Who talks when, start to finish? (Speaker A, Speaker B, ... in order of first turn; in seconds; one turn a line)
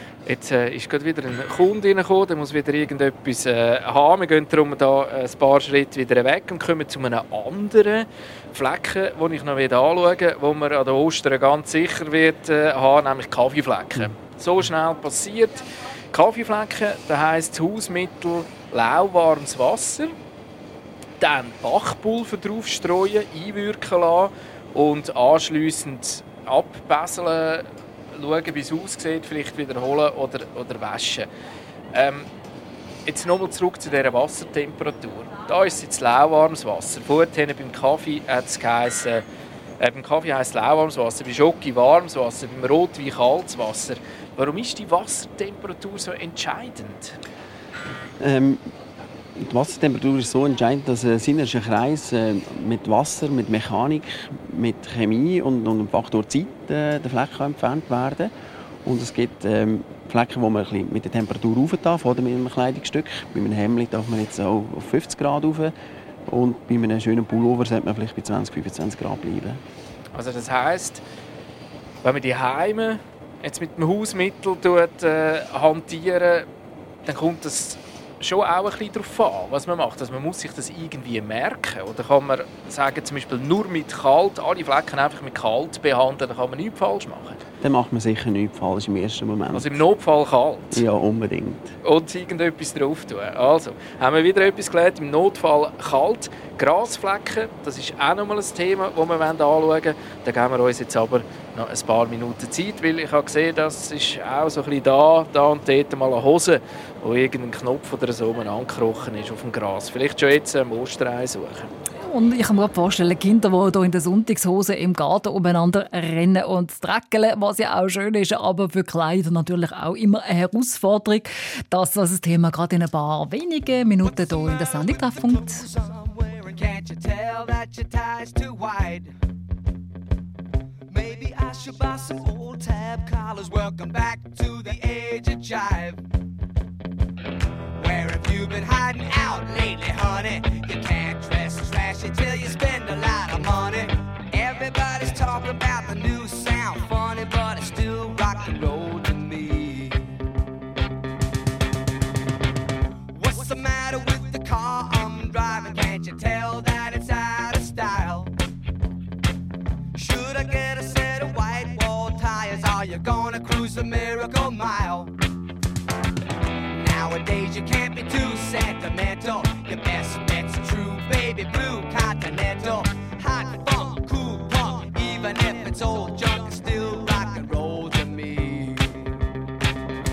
Speaker A: 0.2-15.6
Speaker A: 16.1-20.1
Speaker A: 21.2-31.3
Speaker A: 31.9-32.3
Speaker A: 33.0-39.2
Speaker A: 39.8-47.1
Speaker B: 48.2-48.6
Speaker B: 49.4-58.3
Speaker B: 58.8-65.7
Speaker B: 66.3-69.6
Speaker A: 70.1-71.0
Speaker A: 72.0-76.5
Speaker A: 77.0-87.4
Speaker B: 87.6-89.8
Speaker A: 89.5-90.8
Speaker B: 90.7-91.7
Speaker A: 91.8-111.7
Speaker C: 112.0-125.6
Speaker D: 124.0-129.1
Speaker D: 130.9-136.0
Speaker D: 137.8-150.2
Speaker D: 153.1-158.3
Speaker D: 159.9-165.1
Speaker D: 166.7-179.2